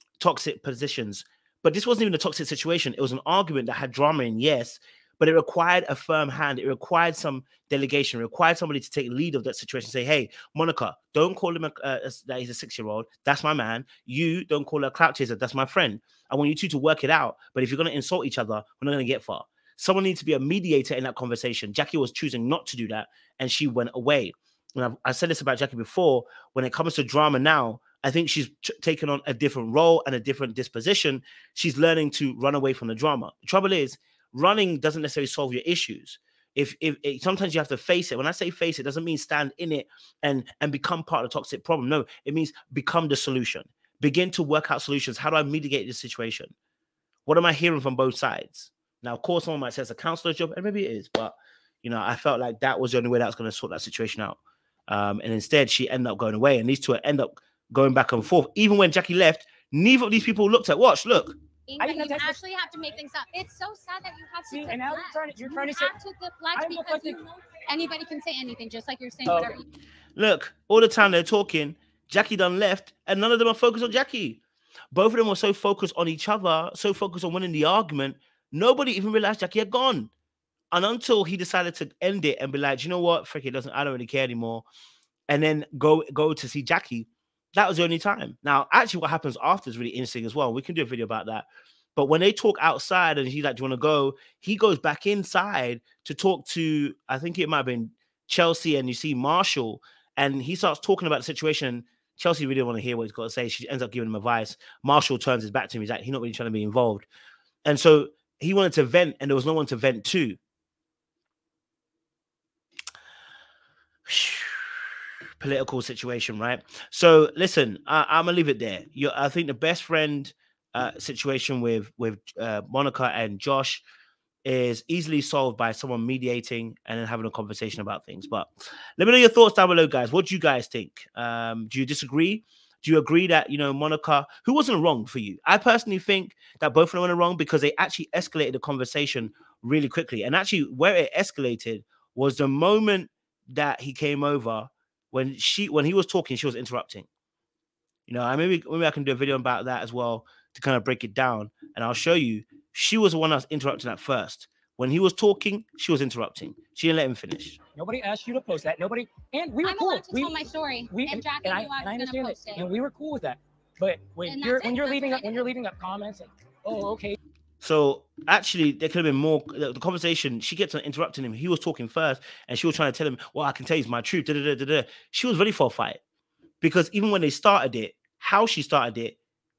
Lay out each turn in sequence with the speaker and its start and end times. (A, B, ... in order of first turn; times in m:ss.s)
0:00.2-0:46.5 A
0:47.3-1:01.4 A
1:01.7-1:09.7 B
1:01.8-1:02.4 C
1:04.5-1:05.9 C
1:06.6-1:07.2 C
1:09.3-1:09.6 C
1:10.2-1:14.4 A
1:14.9-1:20.1 A
1:20.7-1:24.7 A
1:25.3-1:47.1 A
1:47.6-1:50.4 A
1:54.1-2:03.8 A
2:04.4-2:27.1 A
2:28.1-2:37.6 A
2:37.8-2:47.2 C
2:39.6-2:42.7 B
2:44.3-2:45.5 B
2:47.6-2:56.0 A
2:56.6-2:59.2 A